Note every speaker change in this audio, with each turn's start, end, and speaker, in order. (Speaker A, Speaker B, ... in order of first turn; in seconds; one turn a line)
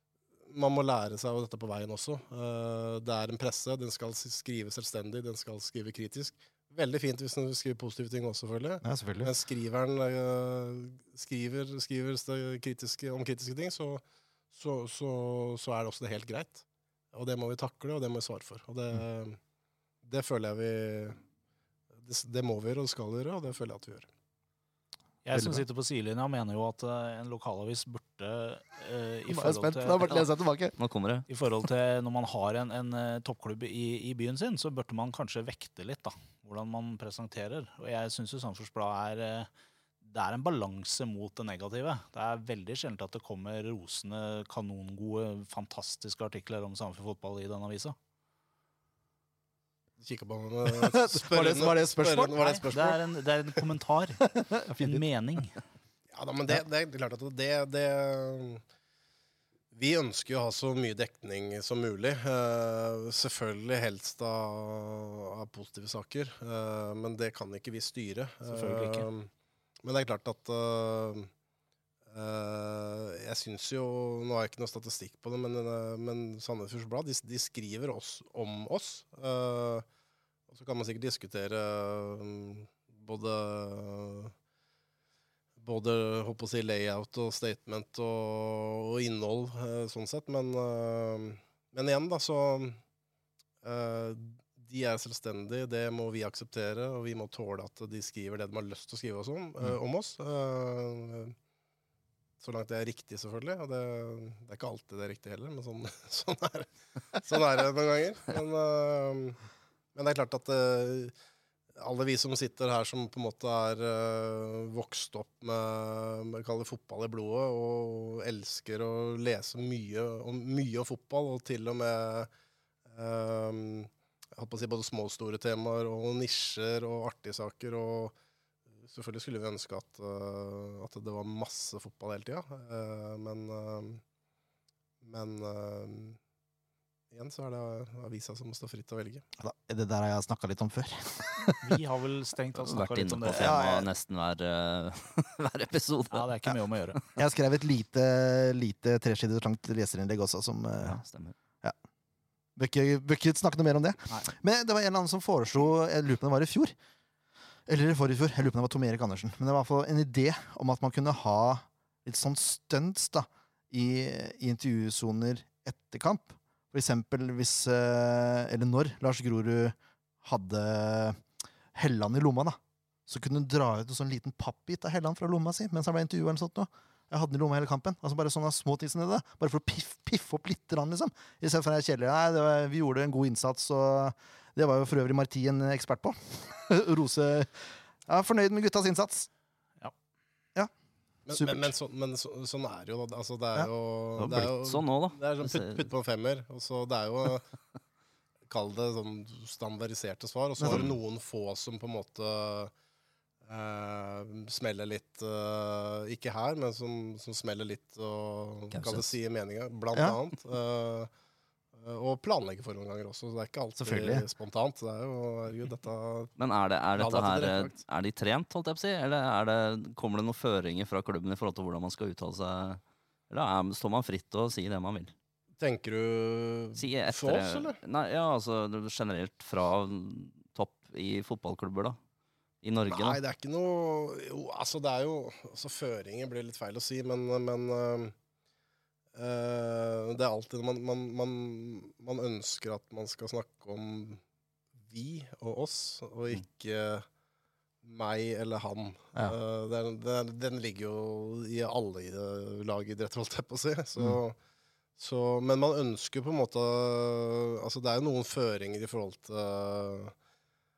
Speaker A: 0.5-19.4
Speaker B: 8.8-9.3
Speaker A: 20.0-21.2
Speaker A: 22.0-24.1
Speaker C: 25.2-30.3
Speaker B: 25.3-25.6
Speaker B: 29.3-30.7
Speaker D: 30.8-31.3
Speaker C: 31.3-39.5
Speaker C: 40.0-48.0
Speaker A: 50.0-53.0
Speaker B: 50.6-52.4
Speaker C: 52.4-55.6
Speaker B: 54.3-55.0
Speaker A: 56.1-58.6
Speaker A: 59.7-69.3
Speaker C: 68.5-69.0
Speaker A: 69.8-71.3
Speaker A: 72.1-79.8
Speaker A: 80.5-84.3
Speaker A: 85.6-92.8
Speaker A: 93.6-101.3
Speaker A: 102.4-109.4
Speaker A: 109.9-111.1
Speaker A: 111.8-122.3
Speaker A: 122.9-128.1
Speaker A: 128.8-134.0
Speaker A: 135.0-136.2
Speaker A: 137.1-139.2
Speaker B: 139.4-141.6
Speaker C: 141.6-143.6
Speaker D: 142.6-146.3
Speaker B: 143.3-143.9
Speaker C: 146.1-147.0
Speaker B: 147.2-151.0
Speaker D: 150.8-151.3
Speaker B: 152.6-156.7
Speaker B: 157.7-171.2
Speaker B: 171.7-189.3
Speaker A: 191.3-197.4
Speaker B: 191.3-191.7
Speaker D: 194.2-195.8
Speaker A: 198.5-202.7
Speaker B: 200.6-200.8
Speaker D: 200.7-200.9
Speaker A: 203.4-211.1
Speaker D: 208.7-209.0
Speaker A: 211.7-216.3
Speaker B: 213.8-214.2
Speaker D: 216.4-225.1
Speaker A: 217.0-217.8
Speaker A: 225.6-227.8
Speaker D: 226.8-232.0
Speaker D: 232.6-233.2
Speaker A: 232.9-238.1
Speaker A: 239.1-244.2
Speaker A: 244.9-247.1
Speaker A: 247.8-254.4
Speaker A: 255.0-260.1